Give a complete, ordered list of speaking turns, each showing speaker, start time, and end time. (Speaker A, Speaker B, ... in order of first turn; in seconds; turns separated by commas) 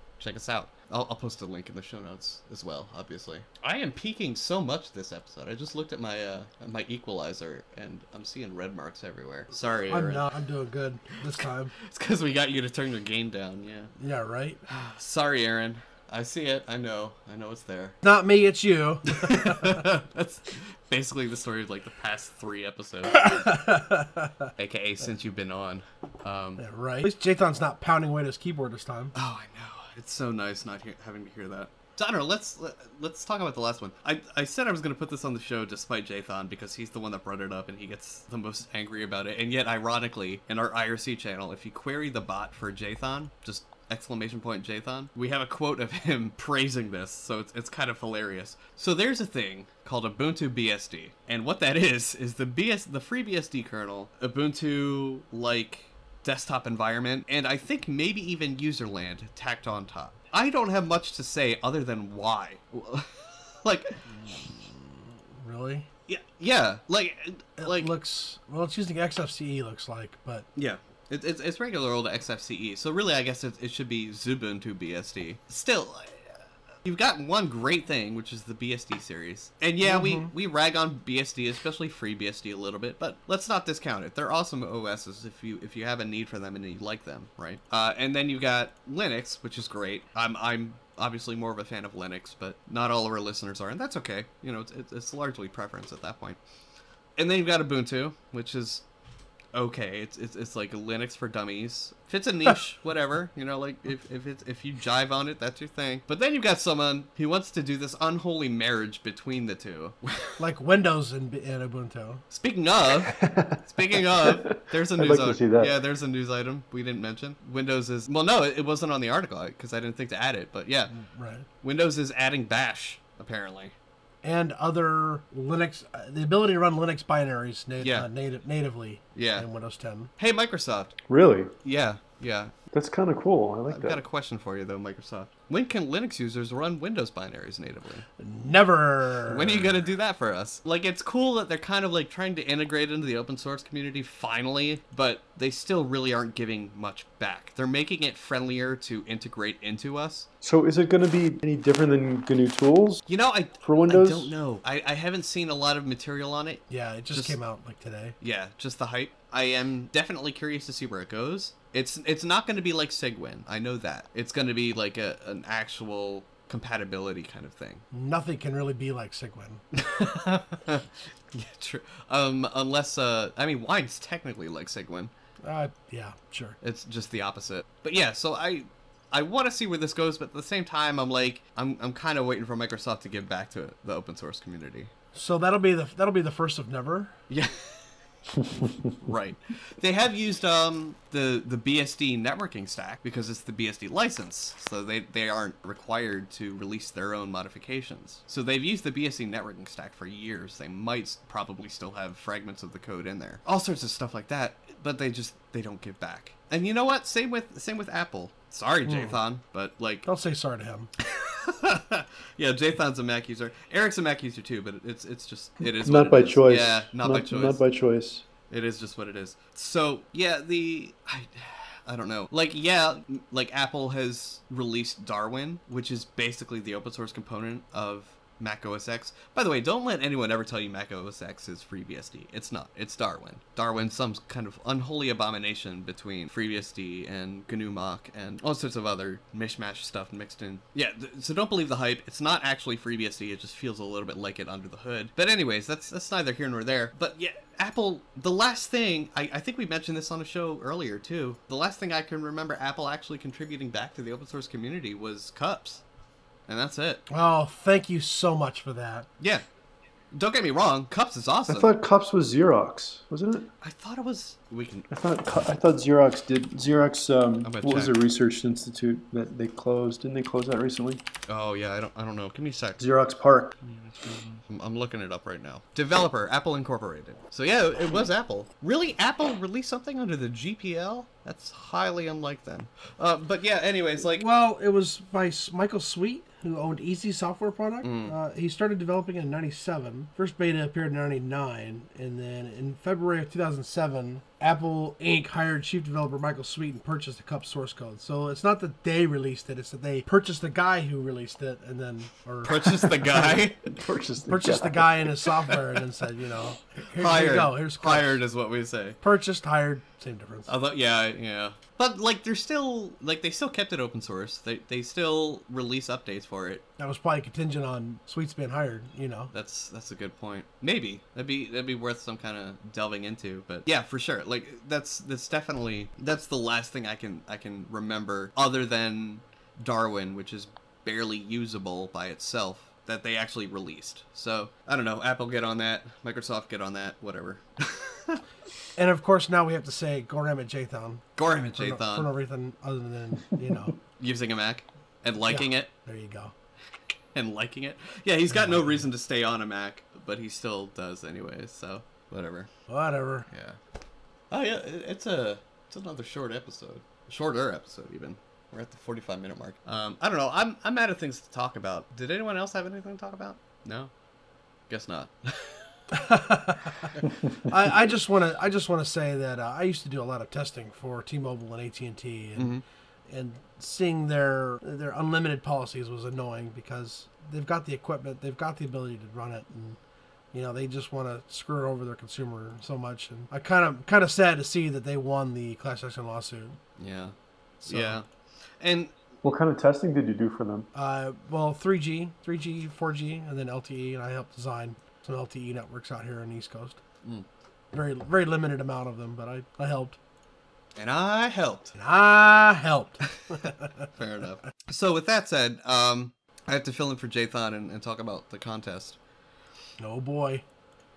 Speaker A: 0.2-10.3, Speaker B: 9.9-11.7, Speaker A: 11.4-13.9, Speaker B: 14.0-14.6, Speaker A: 14.6-18.0, Speaker B: 18.0-19.8, Speaker A: 19.1-23.3, Speaker B: 23.1-24.5, Speaker A: 24.6-26.6, Speaker B: 26.6-29.1, Speaker A: 29.1-64.5, Speaker B: 64.2-65.9, Speaker A: 66.1-67.9, Speaker B: 67.6-70.5, Speaker A: 70.5-96.4, Speaker B: 79.8-80.3, Speaker A: 97.2-98.8, Speaker A: 99.5-110.4, Speaker B: 110.4-112.2, Speaker A: 112.3-120.9, Speaker C: 113.2-113.6, Speaker C: 114.2-115.7, Speaker B: 120.9-121.5, Speaker A: 121.6-123.7, Speaker B: 124.2-130.1, Speaker A: 127.8-128.1, Speaker A: 129.1-129.5, Speaker A: 130.2-130.9, Speaker C: 131.1-131.5, Speaker A: 131.6-132.5, Speaker C: 132.7-134.0, Speaker A: 133.7-138.1, Speaker B: 138.2-139.8, Speaker A: 139.3-150.3, Speaker C: 150.4-153.0, Speaker A: 153.1-157.4, Speaker C: 153.6-154.3, Speaker B: 156.7-158.2, Speaker A: 158.2-167.8, Speaker B: 167.9-169.6, Speaker A: 169.7-175.1, Speaker B: 175.4-176.6, Speaker A: 176.6-184.9, Speaker B: 185.1-187.1, Speaker A: 187.3-187.9, Speaker C: 188.6-188.9, Speaker A: 189.0-210.1, Speaker B: 208.8-209.2, Speaker B: 210.0-210.9, Speaker A: 211.0-217.6, Speaker C: 215.8-218.2, Speaker A: 218.5-255.8, Speaker A: 256.5-257.0, Speaker B: 257.1-259.1, Speaker A: 260.1-261.7, Speaker C: 261.5-263.5, Speaker A: 263.6-264.9, Speaker C: 264.9-271.0, Speaker A: 267.4-267.9, Speaker A: 271.3-272.8, Speaker C: 272.8-273.6, Speaker A: 273.6-284.2, Speaker B: 284.1-303.4, Speaker A: 287.8-288.1, Speaker A: 302.4-303.6, Speaker C: 303.1-305.1, Speaker B: 304.3-308.2, Speaker A: 307.0-309.0, Speaker B: 309.0-310.5, Speaker A: 310.5-316.6, Speaker B: 316.8-319.3, Speaker A: 319.3-338.2, Speaker B: 338.8-343.8, Speaker A: 341.1-342.1, Speaker A: 344.0-345.7, Speaker B: 345.3-346.3, Speaker A: 347.1-352.5, Speaker B: 348.3-348.8, Speaker B: 352.7-353.3, Speaker A: 353.3-353.6, Speaker A: 354.3-363.9, Speaker A: 364.7-365.7, Speaker B: 365.9-366.9, Speaker B: 367.5-372.5, Speaker A: 372.4-372.6, Speaker B: 373.1-379.8, Speaker B: 380.3-386.6, Speaker A: 386.8-387.1, Speaker B: 387.6-388.0, Speaker A: 387.6-388.0, Speaker A: 388.6-388.9, Speaker C: 389.2-390.7, Speaker B: 390.7-396.8, Speaker B: 397.7-400.0, Speaker A: 400.8-401.8, Speaker B: 401.8-403.7, Speaker A: 403.3-409.0, Speaker B: 409.8-410.4